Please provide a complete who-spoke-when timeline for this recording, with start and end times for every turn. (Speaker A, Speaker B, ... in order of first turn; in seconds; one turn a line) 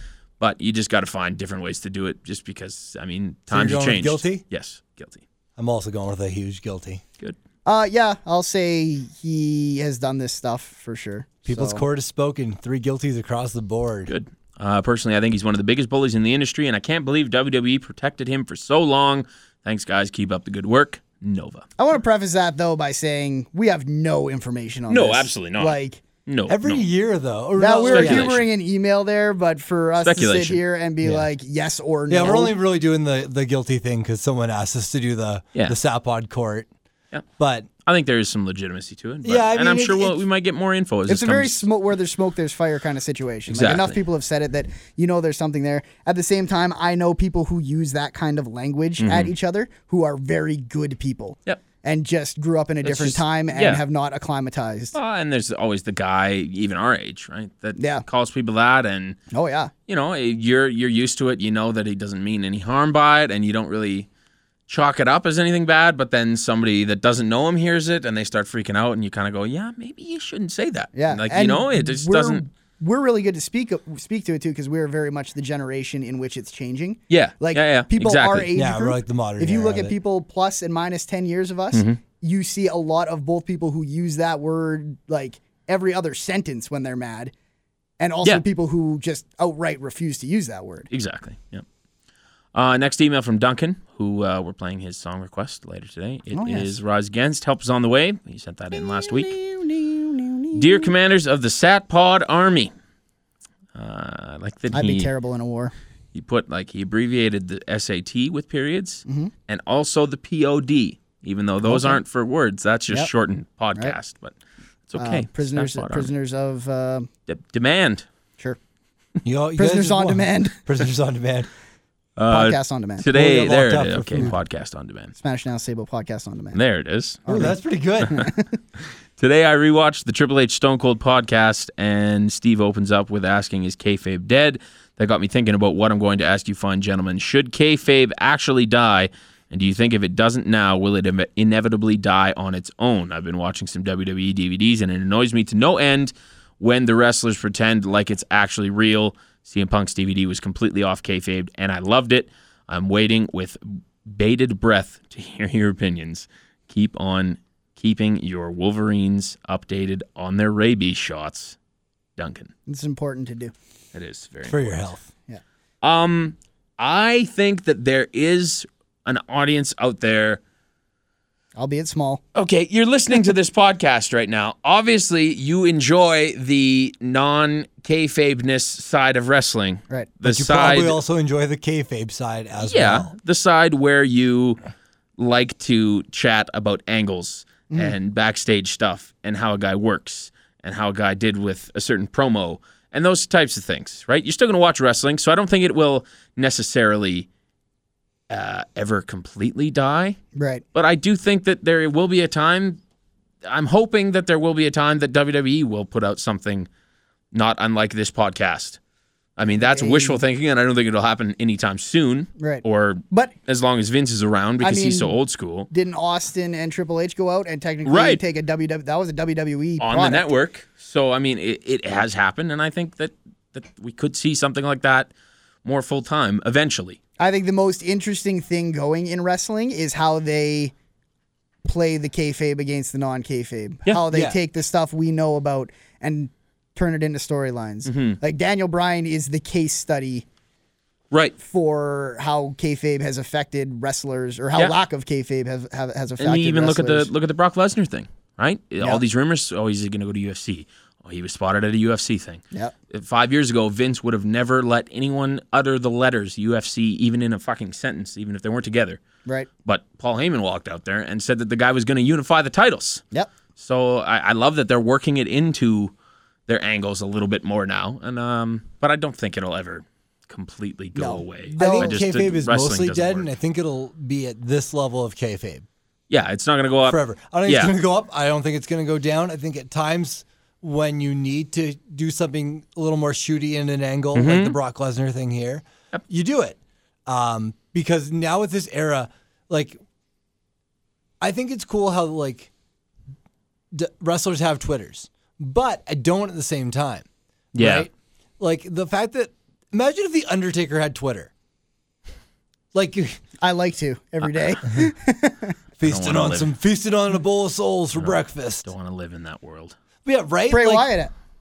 Speaker A: 0.4-5.2
Speaker B: 3.5-4.4
Speaker B: 5.6-7.0
Speaker C: 7.7-11.8
Speaker B: 11.4-14.1
Speaker A: 14.1-21.6
Speaker C: 21.8-26.0
Speaker A: 24.9-26.8
Speaker B: 26.5-28.3
Speaker C: 27.6-32.5
Speaker A: 27.9-28.5
Speaker A: 30.0-30.6
Speaker B: 31.0-31.3
Speaker B: 32.1-36.7
Speaker B: 37.4-37.7
Speaker A: 37.8-41.7
Speaker B: 39.2-40.2
Speaker C: 41.1-54.9
Speaker A: 43.5-44.0
Speaker A: 49.0-49.3
Speaker A: 52.8-53.8
Speaker A: 54.9-59.2
Speaker C: 57.8-58.0
Speaker C: 59.3-59.7
Speaker A: 59.9-64.1
Speaker A: 64.7-72.4
Speaker C: 70.9-87.3
Speaker A: 77.1-78.5
Speaker B: 78.5-79.9
Speaker A: 81.7-82.0
Speaker C: 88.0-90.9
Speaker A: 90.9-91.6
Speaker A: 92.5-99.4
Speaker C: 96.3-96.8
Speaker C: 98.7-100.9
Speaker A: 100.5-102.7
Speaker A: 103.7-105.1
Speaker C: 104.7-105.7
Speaker A: 106.1-114.3
Speaker C: 109.0-109.3
Speaker C: 111.6-112.0
Speaker A: 114.9-116.1
Speaker C: 115.0-117.1
Speaker A: 117.3-118.0
Speaker B: 119.2-121.5
Speaker C: 119.6-120.6
Speaker A: 122.2-125.1
Speaker C: 122.3-123.1
Speaker B: 123.1-124.3
Speaker C: 125.2-126.6
Speaker A: 126.5-127.5
Speaker C: 127.2-127.5
Speaker B: 127.3-128.2
Speaker A: 128.0-128.3
Speaker C: 128.1-128.6
Speaker A: 129.2-161.6
Speaker A: 162.2-162.5
Speaker C: 162.7-163.5
Speaker A: 163.9-164.9
Speaker B: 164.4-165.1
Speaker A: 165.8-170.4
Speaker C: 171.6-172.2
Speaker A: 172.3-181.0
Speaker B: 180.2-183.1
Speaker A: 182.6-184.6
Speaker A: 185.2-197.3
Speaker C: 187.7-187.9
Speaker A: 198.3-200.2
Speaker C: 200.3-200.6
Speaker A: 200.7-202.8
Speaker A: 203.4-206.7
Speaker A: 207.3-208.8
Speaker A: 209.4-215.7
Speaker C: 209.6-210.2
Speaker C: 212.4-213.3
Speaker C: 214.6-215.2
Speaker C: 215.7-220.3
Speaker A: 217.8-218.2
Speaker A: 219.8-225.1
Speaker A: 225.6-227.0
Speaker C: 227.2-230.7
Speaker C: 231.6-240.2
Speaker B: 234.1-234.4
Speaker A: 237.8-238.2
Speaker C: 241.4-247.1
Speaker A: 246.2-259.0
Speaker A: 259.6-263.0
Speaker A: 263.6-265.9
Speaker A: 266.5-273.3
Speaker C: 270.9-272.0
Speaker B: 271.6-275.6
Speaker A: 276.1-277.7
Speaker B: 276.9-289.8
Speaker A: 284.1-284.6
Speaker B: 291.2-292.5
Speaker B: 293.7-301.3
Speaker A: 297.5-297.9
Speaker B: 302.7-303.2
Speaker C: 303.4-305.6
Speaker B: 305.8-308.7
Speaker A: 305.8-306.5
Speaker A: 307.9-309.8
Speaker B: 310.0-310.9
Speaker C: 310.5-311.1